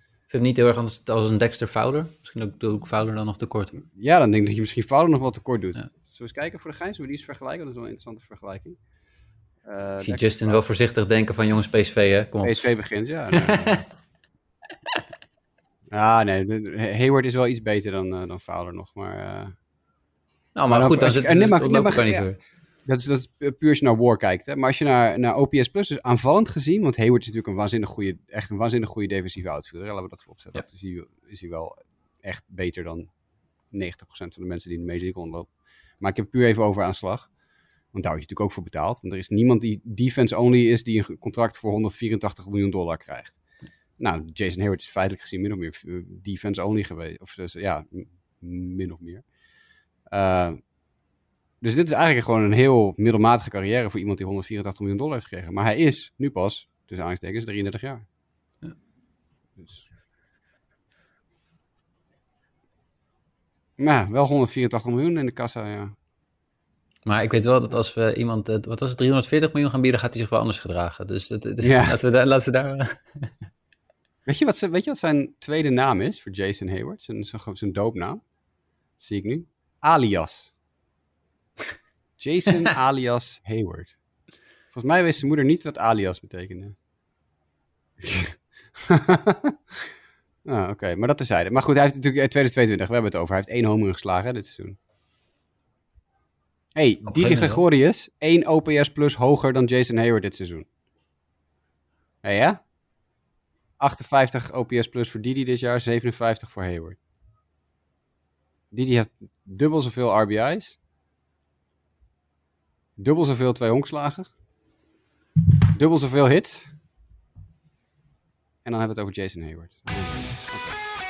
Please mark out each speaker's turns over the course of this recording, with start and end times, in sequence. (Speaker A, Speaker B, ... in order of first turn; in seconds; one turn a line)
Speaker A: 0.3-3.8
Speaker B: 3.9-8.8
Speaker B: 9.7-10.6
Speaker A: 10.0-12.6
Speaker B: 12.4-13.8
Speaker A: 13.3-13.8
Speaker B: 15.9-19.6
Speaker A: 20.6-22.4
Speaker B: 20.7-22.3
Speaker B: 22.9-33.1
Speaker B: 33.7-37.3
Speaker B: 37.9-43.4
Speaker B: 44.0-49.3
Speaker B: 50.1-50.6
Speaker B: 51.6-58.0
Speaker B: 59.6-59.9
Speaker B: 63.8-66.0
Speaker A: 67.0-73.3
Speaker B: 71.6-72.0
Speaker B: 74.2-78.2
Speaker B: 79.0-80.5
Speaker B: 82.2-84.0
Speaker B: 84.7-86.8
Speaker B: 88.0-89.8
Speaker B: 90.5-94.8
Speaker B: 96.8-100.7
Speaker A: 97.0-97.6
Speaker B: 102.2-102.6
Speaker B: 103.8-107.0
Speaker B: 108.7-110.8
Speaker B: 113.0-114.3
Speaker B: 115.7-116.8
Speaker B: 118.6-120.9